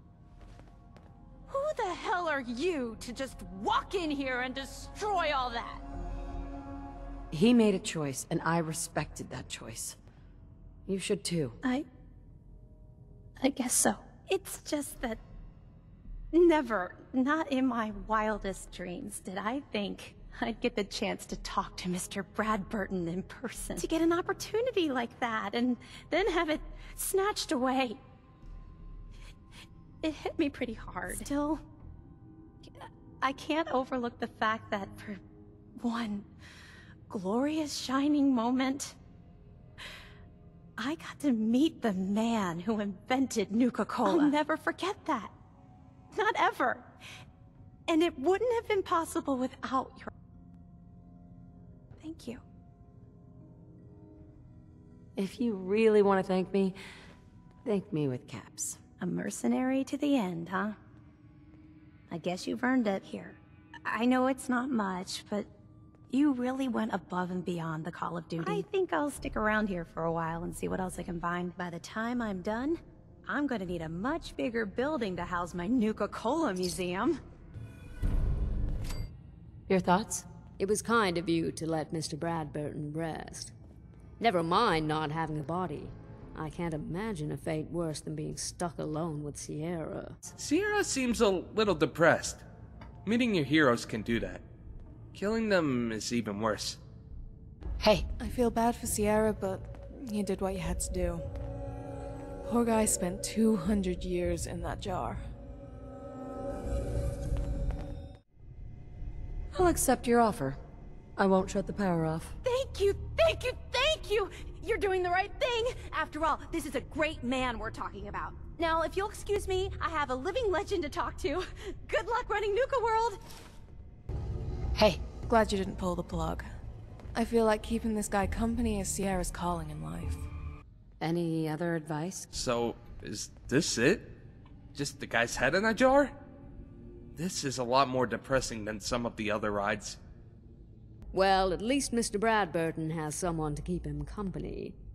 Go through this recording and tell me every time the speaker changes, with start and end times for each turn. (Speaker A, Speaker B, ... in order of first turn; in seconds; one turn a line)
Speaker A: 1.5-5.8
Speaker B: 7.3-10.0
Speaker B: 10.9-11.6
Speaker A: 13.4-15.2
Speaker A: 16.3-28.0
Speaker A: 30.0-31.6
Speaker A: 32.8-35.2
Speaker A: 35.8-36.3
Speaker A: 37.1-39.0
Speaker A: 40.8-45.3
Speaker A: 46.1-46.9
Speaker A: 47.9-50.1
Speaker A: 52.0-52.4
Speaker B: 55.2-56.8
Speaker B: 57.7-58.8
Speaker A: 59.0-60.8
Speaker A: 62.1-65.5
Speaker A: 66.1-77.2
Speaker B: 79.7-80.2
Speaker C: 80.6-83.5
Speaker C: 84.2-90.3
Speaker D: 90.4-92.4
Speaker D: 93.0-94.4
Speaker D: 95.1-96.8
Speaker E: 98.2-101.2
Speaker E: 102.5-105.2
Speaker B: 109.5-110.6
Speaker B: 111.2-112.3
Speaker A: 112.4-123.2
Speaker B: 124.8-125.0
Speaker E: 125.2-126.5
Speaker E: 127.2-130.2
Speaker B: 131.0-132.3
Speaker D: 132.3-134.1
Speaker D: 134.7-136.1
Speaker D: 137.2-140.0
Speaker C: 141.1-144.8